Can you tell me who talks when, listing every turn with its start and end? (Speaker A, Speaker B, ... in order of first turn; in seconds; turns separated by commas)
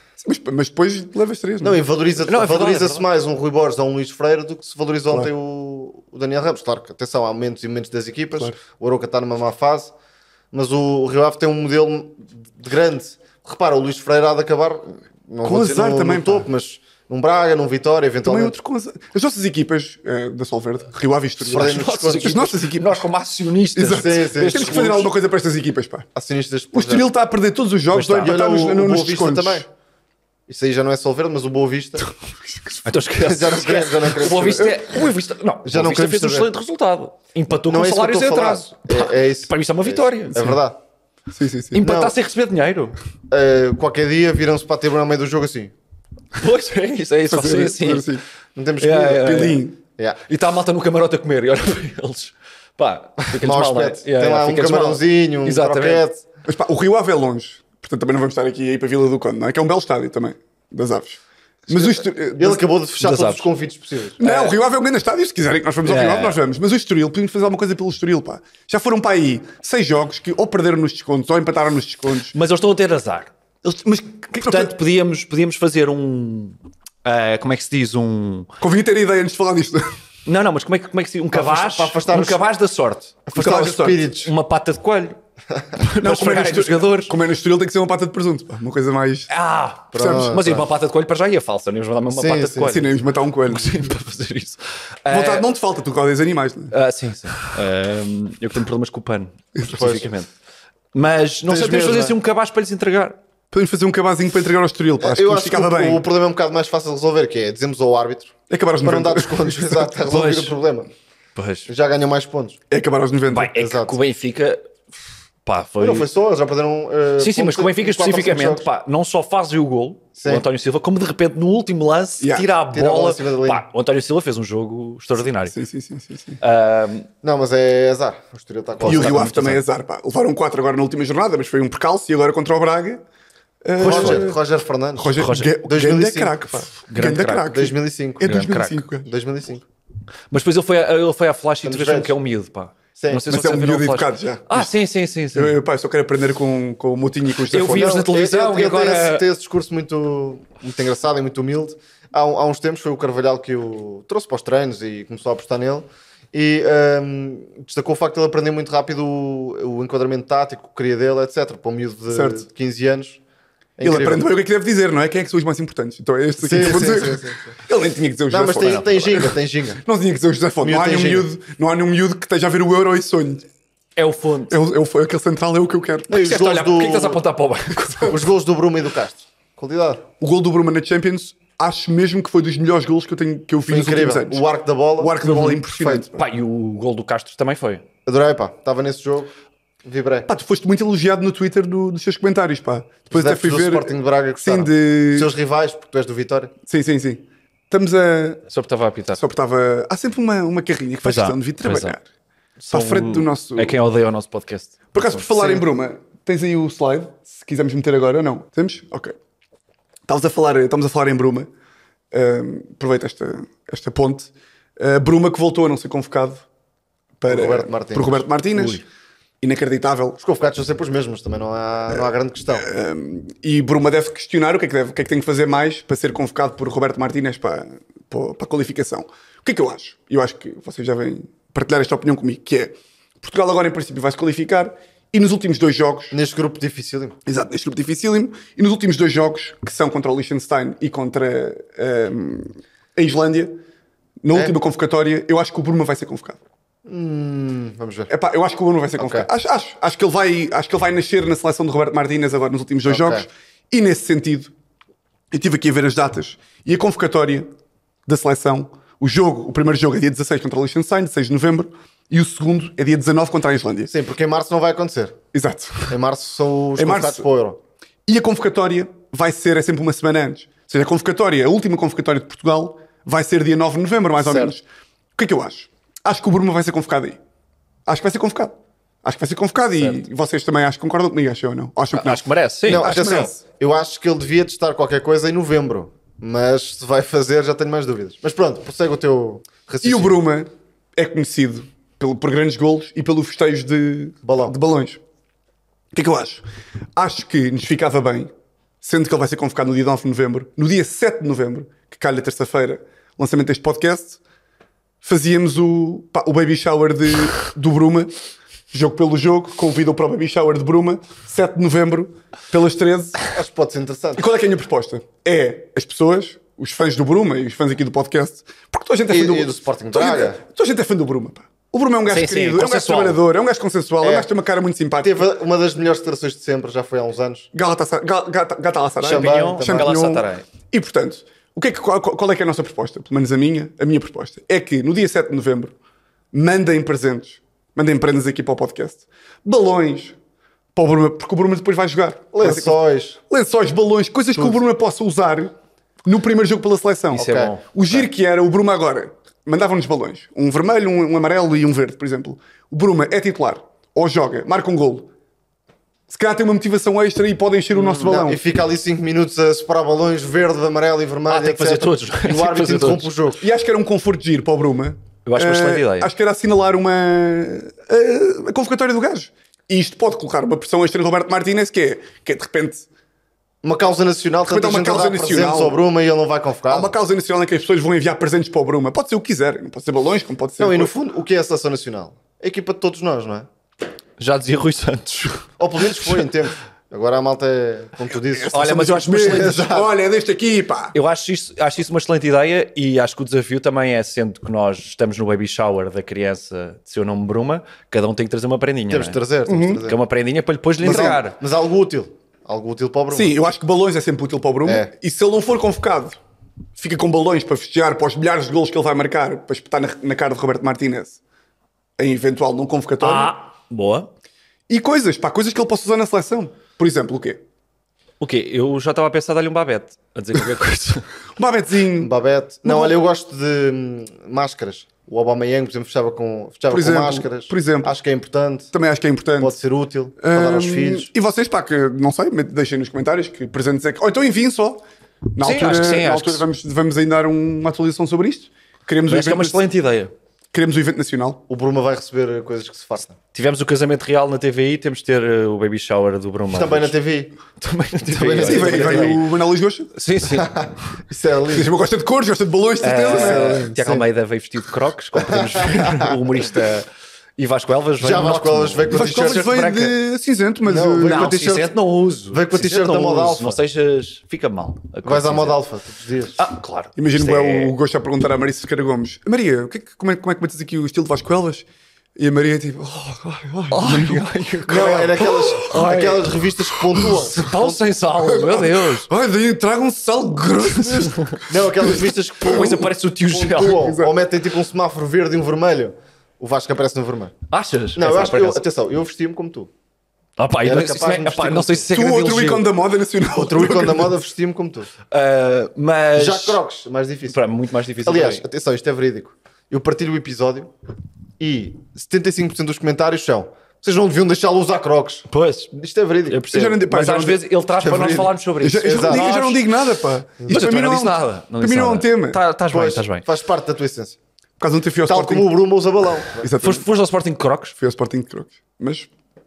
Speaker A: 0.2-1.8, Speaker B: 1.6-9.9, Speaker C: 2.2-3.0, Speaker B: 10.5-18.6, Speaker A: 15.4-16.5, Speaker A: 18.2-23.0, Speaker B: 21.4-22.4, Speaker C: 21.5-25.1, Speaker A: 23.7-26.1, Speaker B: 23.9-24.9, Speaker B: 26.1-27.1, Speaker A: 26.7-29.6, Speaker C: 27.9-28.4, Speaker B: 28.2-29.7, Speaker B: 30.5-32.1, Speaker A: 32.2-32.9, Speaker C: 32.8-40.5, Speaker B: 33.2-34.8, Speaker B: 35.6-36.5, Speaker B: 37.7-40.8, Speaker A: 41.3-41.8, Speaker C: 41.7-43.0, Speaker B: 41.8-42.1, Speaker B: 43.3-45.7, Speaker C: 46.3-48.2, Speaker A: 47.3-48.2, Speaker B: 48.5-50.2, Speaker C: 48.8-49.6, Speaker A: 49.1-49.8, Speaker C: 50.3-56.0, Speaker B: 53.3-56.2, Speaker A: 56.5-62.6, Speaker B: 61.8-64.5, Speaker C: 63.0-63.4, Speaker A: 64.2-72.3, Speaker C: 65.8-66.4, Speaker C: 72.3-73.3, Speaker A: 73.6-74.7, Speaker C: 74.3-78.5, Speaker A: 78.6-79.8, Speaker C: 80.2-83.2, Speaker B: 81.3-82.4, Speaker B: 83.3-84.3, Speaker A: 83.3-84.1, Speaker C: 84.2-85.2, Speaker C: 85.8-87.1, Speaker A: 86.0-89.3, Speaker C: 89.3-95.5, Speaker B: 89.9-90.7, Speaker A: 90.0-90.4, Speaker B: 92.1-92.8, Speaker A: 92.6-93.9, Speaker A: 95.1-96.7, Speaker C: 96.7-100.3, Speaker B: 99.7-100.1, Speaker C: 100.9-103.2, Speaker B: 101.5-102.2, Speaker A: 103.5-106.0, Speaker B: 105.0-110.9, Speaker A: 108.5-109.9, Speaker C: 110.1-110.5, Speaker C: 111.3-111.7, Speaker B: 111.7-112.6, Speaker A: 112.7-113.5, Speaker C: 113.3-114.7, Speaker B: 113.5-114.0, Speaker C: 115.4-116.1, Speaker B: 115.8-118.7, Speaker C: 117.2-125.5, Speaker B: 120.2-120.4, Speaker A: 122.2-122.5, Speaker B: 122.7-123.6, Speaker A: 125.5-126.4, Speaker C: 126.4-127.1, Speaker B: 127.2-129.4, Speaker C: 128.8-129.6, Speaker A: 128.8-133.0, Speaker A: 133.6-134.4, Speaker C: 133.8-134.3, Speaker B: 133.8-136.5, Speaker A: 135.0-139.1, Speaker C: 135.2-135.5, Speaker C: 136.9-137.5, Speaker B: 137.4-138.4, Speaker C: 138.2-138.8, Speaker B: 139.0-139.6, Speaker C: 140.3-145.6, Speaker B: 141.6-142.1, Speaker B: 143.0-143.2, Speaker A: 143.3-144.7, Speaker A: 145.3-148.0, Speaker C: 147.5-149.2, Speaker B: 147.6-163.2, Speaker A: 162.1-162.4, Speaker B: 163.8-164.2, Speaker A: 163.8-173.4, Speaker B: 166.4-167.5, Speaker B: 168.3-169.8, Speaker C: 168.6-168.9, Speaker B: 170.6-171.3, Speaker C: 174.0-174.6, Speaker A: 174.5-176.1, Speaker B: 176.1-177.2, Speaker C: 176.1-178.2, Speaker B: 178.0-180.0, Speaker A: 180.2-184.4, Speaker B: 183.7-186.1, Speaker A: 185.0-186.2, Speaker C: 186.2-187.8, Speaker B: 188.1-189.3, Speaker B: 189.8-190.3, Speaker A: 190.3-195.3, Speaker B: 193.1-196.5, Speaker A: 196.7-198.4, Speaker C: 198.5-199.2, Speaker A: 199.2-202.0, Speaker C: 201.0-202.0, Speaker C: 202.6-205.6, Speaker A: 202.7-203.8, Speaker A: 204.9-209.1, Speaker A: 210.1-211.5, Speaker A: 212.1-216.4, Speaker A: 217.2-218.8, Speaker B: 217.3-218.8, Speaker A: 219.4-220.2, Speaker B: 220.2-222.7, Speaker A: 221.9-236.1, Speaker B: 236.1-237.2, Speaker A: 237.2-243.5, Speaker A: 244.2-246.4, Speaker B: 246.8-248.1, Speaker A: 248.1-254.5, Speaker B: 249.0-249.3, Speaker B: 252.9-253.3, Speaker A: 255.3-257.5, Speaker A: 258.1-263.9, Speaker B: 263.9-265.2, Speaker A: 265.3-266.0, Speaker B: 265.9-267.6, Speaker A: 266.8-267.2, Speaker A: 268.1-274.6, Speaker B: 274.2-274.5, Speaker A: 275.1-277.2, Speaker A: 277.9-278.5, Speaker A: 279.0-283.4, Speaker C: 281.9-282.9, Speaker B: 282.6-290.2, Speaker A: 289.8-295.0, Speaker B: 294.2-294.5, Speaker A: 295.9-296.4, Speaker A: 296.9-298.3, Speaker A: 298.8-304.2, Speaker A: 305.0-308.1, Speaker A: 308.7-313.2, Speaker B: 313.3-314.2, Speaker A: 314.1-325.3, Speaker B: 319.1-320.4, Speaker C: 322.1-323.2, Speaker B: 324.0-324.3, Speaker B: 325.0-327.5, Speaker A: 327.5-335.7, Speaker B: 329.0-329.9, Speaker C: 329.0-330.5, Speaker A: 336.3-340.1, Speaker A: 340.7-345.5, Speaker B: 342.3-343.2, Speaker A: 346.0-355.1, Speaker C: 347.1-348.1, Speaker B: 347.2-347.5, Speaker A: 356.1-358.4, Speaker C: 357.7-358.1, Speaker B: 357.9-363.4, Speaker C: 361.3-363.1, Speaker A: 363.4-372.9, Speaker C: 365.2-366.1, Speaker B: 373.6-376.9, Speaker A: 374.4-375.8, Speaker A: 376.7-380.9, Speaker B: 380.6-383.5, Speaker C: 384.2-385.5, Speaker B: 385.6-389.9, Speaker A: 388.1-390.9, Speaker C: 388.5-389.7, Speaker C: 390.9-399.2, Speaker B: 398.9-400.0, Speaker A: 399.5-399.8, Speaker C: 399.8-401.4, Speaker B: 400.8-403.3, Speaker A: 400.8-401.2, Speaker A: 403.1-406.2, Speaker B: 404.6-404.9, Speaker A: 406.8-411.2, Speaker A: 412.0-413.3, Speaker C: 413.0-414.1, Speaker A: 414.7-417.4, Speaker C: 418.2-421.1, Speaker A: 421.4-422.1, Speaker B: 422.0-428.7, Speaker A: 422.6-423.0, Speaker A: 426.7-427.9, Speaker A: 428.7-429.5, Speaker B: 429.4-431.1, Speaker A: 430.2-439.6, Speaker C: 435.4-436.4, Speaker C: 439.1-440.1, Speaker A: 440.5-441.4, Speaker B: 441.5-443.1, Speaker C: 443.3-446.9, Speaker B: 446.5-447.4, Speaker C: 447.6-449.2, Speaker B: 448.1-449.2, Speaker A: 448.4-449.9, Speaker C: 449.9-450.7, Speaker B: 450.2-451.7, Speaker A: 451.5-453.7, Speaker C: 452.8-459.9, Speaker B: 453.0-454.0, Speaker B: 455.2-456.1, Speaker B: 458.0-459.5, Speaker A: 458.9-461.4, Speaker B: 460.6-461.8, Speaker C: 461.0-465.6, Speaker B: 462.3-463.6, Speaker B: 465.0-466.4, Speaker C: 466.4-467.7, Speaker A: 466.9-474.3, Speaker C: 473.7-476.4, Speaker B: 474.7-477.9, Speaker A: 474.8-475.7, Speaker A: 476.9-477.2, Speaker C: 477.0-479.1, Speaker A: 478.3-482.9, Speaker C: 480.7-481.4, Speaker B: 481.5-487.3, Speaker C: 482.4-483.9, Speaker A: 483.6-484.1, Speaker C: 487.5-488.6, Speaker B: 487.9-489.7, Speaker C: 490.4-492.7, Speaker B: 490.6-491.9, Speaker A: 491.9-494.2, Speaker B: 493.3-494.9, Speaker C: 495.1-496.6, Speaker B: 496.1-497.4, Speaker C: 497.3-498.4, Speaker B: 498.0-500.7, Speaker B: 501.4-506.4, Speaker C: 505.3-505.7, Speaker C: 506.3-509.6, Speaker A: 506.5-512.4, Speaker B: 507.8-508.3, Speaker B: 508.8-509.4, Speaker B: 510.4-510.7, Speaker C: 510.5-513.2, Speaker B: 512.7-514.2, Speaker A: 514.6-515.5, Speaker B: 515.1-516.5, Speaker A: 516.4-516.8, Speaker C: 516.6-517.8, Speaker A: 517.8-519.1